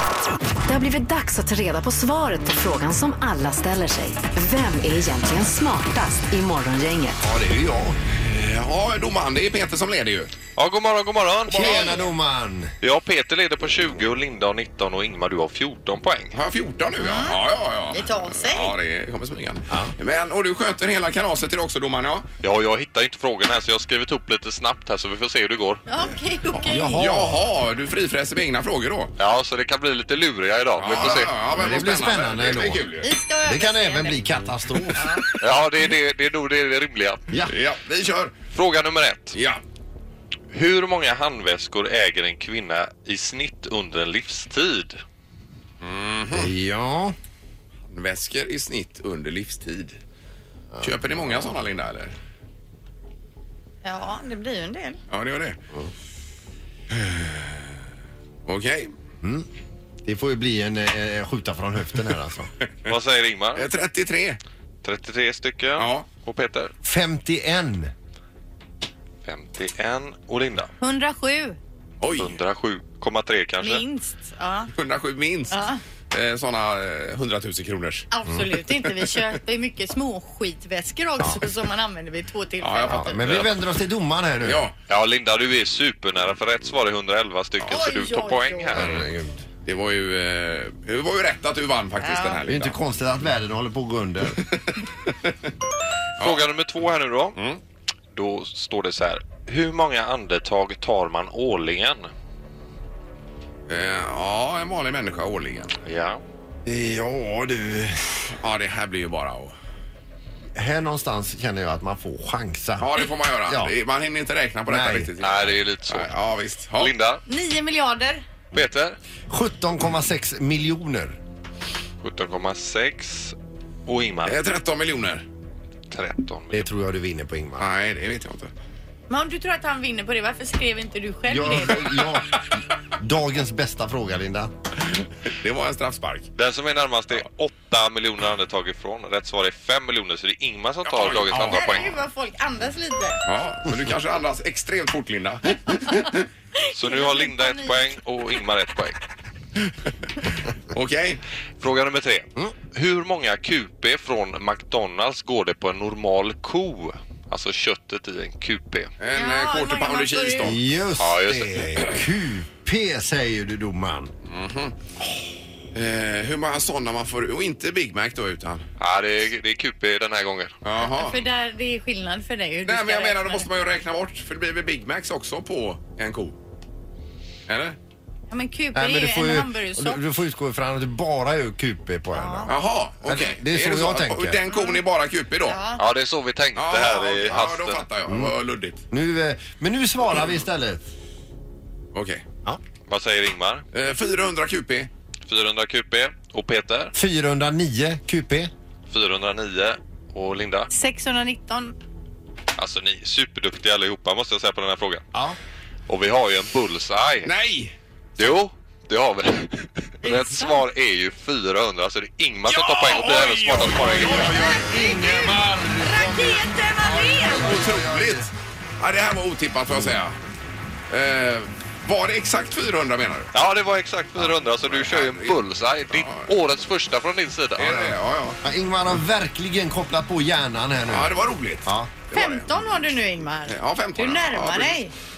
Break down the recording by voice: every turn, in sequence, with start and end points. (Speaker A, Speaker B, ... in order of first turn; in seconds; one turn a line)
Speaker A: 0.7-7.2
Speaker B: 7.2-8.0
Speaker C: 8.2-10.4
Speaker D: 10.6-12.1
Speaker B: 11.5-12.7
Speaker C: 11.5-12.1
Speaker D: 12.8-16.4
Speaker C: 16.3-22.3
Speaker E: 17.0-17.4
Speaker E: 17.9-18.7
Speaker D: 22.4-25.8
Speaker E: 25.9-27.0
Speaker C: 26.5-29.1
Speaker B: 26.7-27.4
Speaker D: 29.2-31.4
Speaker C: 30.8-33.1
Speaker B: 31.5-32.9
Speaker E: 33.0-34.2
Speaker B: 33.4-35.2
Speaker E: 35.0-35.2
Speaker D: 35.4-37.3
Speaker C: 37.5-38.3
Speaker D: 38.5-39.4
Speaker C: 39.3-39.6
Speaker D: 40.5-45.0
Speaker C: 45.8-46.5
Speaker B: 46.3-47.1
Speaker C: 47.9-50.0
Speaker B: 50.8-51.5
Speaker C: 50.8-52.1
Speaker E: 53.8-55.0
Speaker C: 55.1-55.7
Speaker C: 56.9-57.7
Speaker C: 58.5-58.9
Speaker B: 60.0-62.5
Speaker D: 62.9-63.7
Speaker C: 63.6-64.4
Speaker D: 64.8-66.7
Speaker C: 65.8-66.1
Speaker B: 66.8-67.9
Speaker D: 69.2-70.7
Speaker E: 70.8-71.6
Speaker C: 72.0-72.4
Speaker D: 72.1-73.8
Speaker E: 73.6-74.7
Speaker C: 74.7-75.6
Speaker E: 75.5-75.8
Speaker C: 76.1-78.1
Speaker E: 78.1-83.3
Speaker C: 78.9-79.2
Speaker C: 82.6-83.6
Speaker B: 82.9-84.7
Speaker C: 84.4-84.8
Speaker D: 84.9-88.9
Speaker E: 87.7-88.8
Speaker B: 88.8-89.4
Speaker C: 88.8-89.0
Speaker C: 89.7-92.8
Speaker E: 92.0-92.4
Speaker B: 92.5-94.4
Speaker C: 96.2-96.4
Speaker D: 96.2-97.4
Speaker D: 98.1-102.1
Speaker C: 103.7-105.8
Speaker D: 105.8-106.2
Speaker B: 106.7-108.3
Speaker C: 108.4-109.5
Speaker B: 110.6-112.9
Speaker C: 112.8-116.9
Speaker B: 114.7-115.1
Speaker D: 115.2-116.2
Speaker D: 116.8-117.2
Speaker E: 117.3-118.2
Speaker D: 118.5-119.0
Speaker B: 119.3-121.2
Speaker D: 122.0-123.3
Speaker D: 123.9-124.4
Speaker C: 124.3-125.2
Speaker D: 125.9-126.7
Speaker B: 126.5-127.7
Speaker C: 127.6-128.5
Speaker E: 129.1-132.0
Speaker B: 131.3-132.4
Speaker B: 133.0-134.5
Speaker C: 135.3-136.3
Speaker D: 136.4-141.9
Speaker C: 140.9-141.8
Speaker E: 141.4-143.2
Speaker C: 143.2-146.3
Speaker E: 146.6-147.9
Speaker D: 146.7-149.0
Speaker C: 150.7-151.2
Speaker D: 151.6-158.9
Speaker C: 159.0-160.7
Speaker E: 159.1-160.6
Speaker B: 160.4-164.1
Speaker D: 161.0-161.8
Speaker C: 164.3-164.8
Speaker C: 165.7-168.7
Speaker D: 168.8-170.5
Speaker C: 170.6-171.2
Speaker E: 170.8-173.5
Speaker C: 172.7-176.4
Speaker C: 177.5-177.8
Speaker E: 178.3-180.0
Speaker B: 178.7-184.4
Speaker E: 182.1-182.5
Speaker C: 182.5-185.6
Speaker E: 184.5-184.8
Speaker E: 185.4-185.8
Speaker D: 185.8-187.8
Speaker C: 186.6-188.8
Speaker B: 188.1-188.3
Speaker B: 188.9-190.8
Speaker C: 191.9-192.2
Speaker D: 192.9-193.6
Speaker C: 193.7-194.9
Speaker D: 195.3-196.9
Speaker B: 196.9-198.5
Speaker D: 198.9-200.7
Speaker E: 200.7-201.8
Speaker D: 202.6-205.0
Speaker D: 205.9-207.3
Speaker C: 207.2-207.7
Speaker D: 208.2-214.4
Speaker E: 210.0-210.6
Speaker C: 212.5-214.7
Speaker E: 214.1-217.6
Speaker B: 214.2-218.3
Speaker C: 217.3-220.2
Speaker C: 220.9-223.3
Speaker D: 223.3-227.8
Speaker C: 224.2-225.4
Speaker C: 225.9-226.3
Speaker C: 227.6-228.4
Speaker B: 228.4-231.9
Speaker C: 230.9-232.8
Speaker E: 232.1-234.9
Speaker C: 233.5-234.8